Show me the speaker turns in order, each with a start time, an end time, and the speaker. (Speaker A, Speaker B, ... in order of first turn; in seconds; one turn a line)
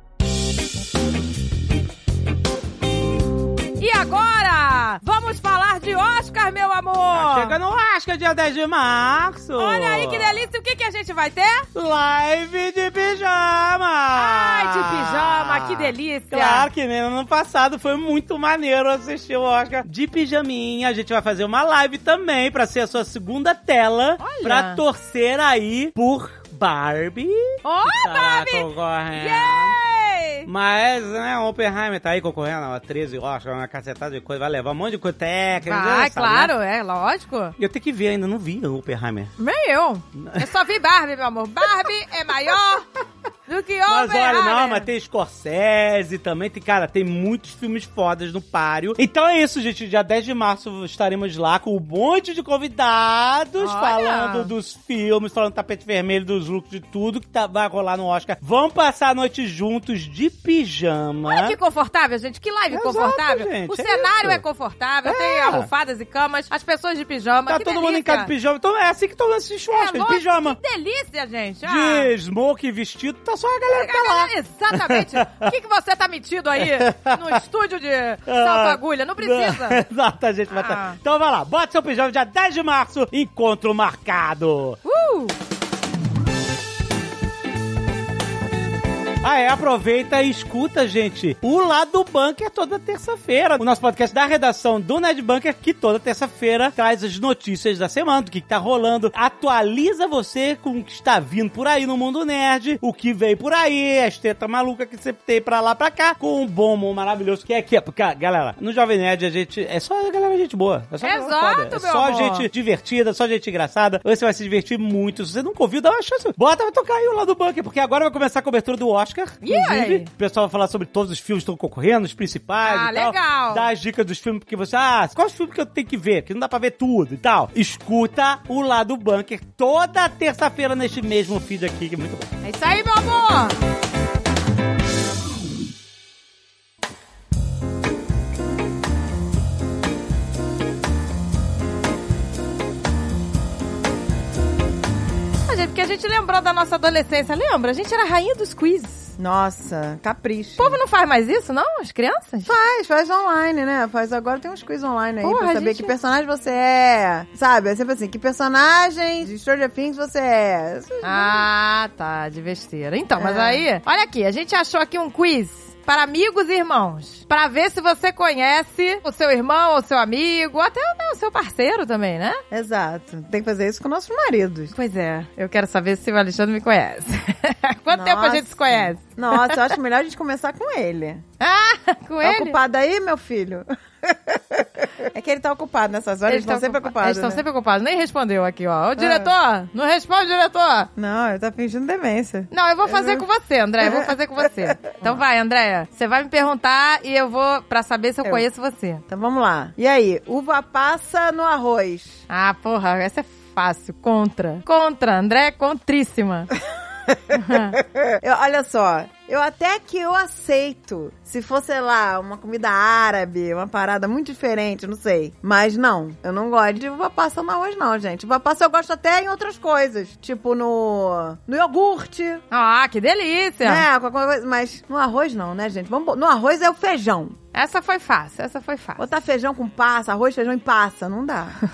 Speaker A: 3.8-7.5
Speaker B: 7.1-10.4
Speaker A: 9.6-11.7
Speaker B: 11.7-29.8
Speaker A: 14.1-16.7
Speaker A: 24.2-24.8
Speaker A: 27.6-30.5
Speaker B: 30.4-36.5
Speaker A: 35.6-37.5
Speaker B: 37.6-39.3
Speaker A: 39.4-42.8
Speaker B: 40.1-40.5
Speaker A: 43.5-44.9
Speaker B: 43.9-61.5
Speaker A: 53.6-54.5
Speaker A: 61.2-68.3
Speaker B: 62.7-64.4
Speaker B: 65.0-65.7
Speaker B: 67.5-70.6
Speaker A: 69.7-72.1
Speaker B: 71.6-75.5
Speaker A: 73.7-79.8
Speaker B: 76.6-77.4
Speaker B: 78.3-84.8
Speaker A: 80.5-81.0
Speaker A: 84.8-85.3
Speaker B: 89.2-132.3
Speaker A: 111.0-112.5
Speaker A: 119.4-120.1
Speaker A: 122.6-123.7
Speaker A: 132.4-133.5
Speaker A: 145.4-149.1
Speaker C: 149.2-150.8
Speaker A: 150.6-152.5
Speaker C: 152.4-161.5
Speaker A: 155.2-155.9
Speaker A: 161.0-172.4
Speaker C: 163.2-163.6
Speaker C: 172.5-174.7
Speaker A: 174.7-179.6
Speaker C: 177.9-181.2
Speaker A: 181.4-182.6
Speaker C: 182.2-187.4
Speaker A: 186.3-190.9
Speaker C: 189.0-189.3
Speaker C: 190.9-193.2
Speaker A: 192.5-199.0
Speaker C: 193.8-195.2
Speaker C: 199.1-202.2
Speaker A: 202.3-206.5
Speaker C: 207.1-222.4
Speaker A: 207.3-207.8
Speaker A: 222.5-223.8
Speaker C: 223.6-227.4
Speaker A: 227.5-229.0
Speaker C: 229.0-231.6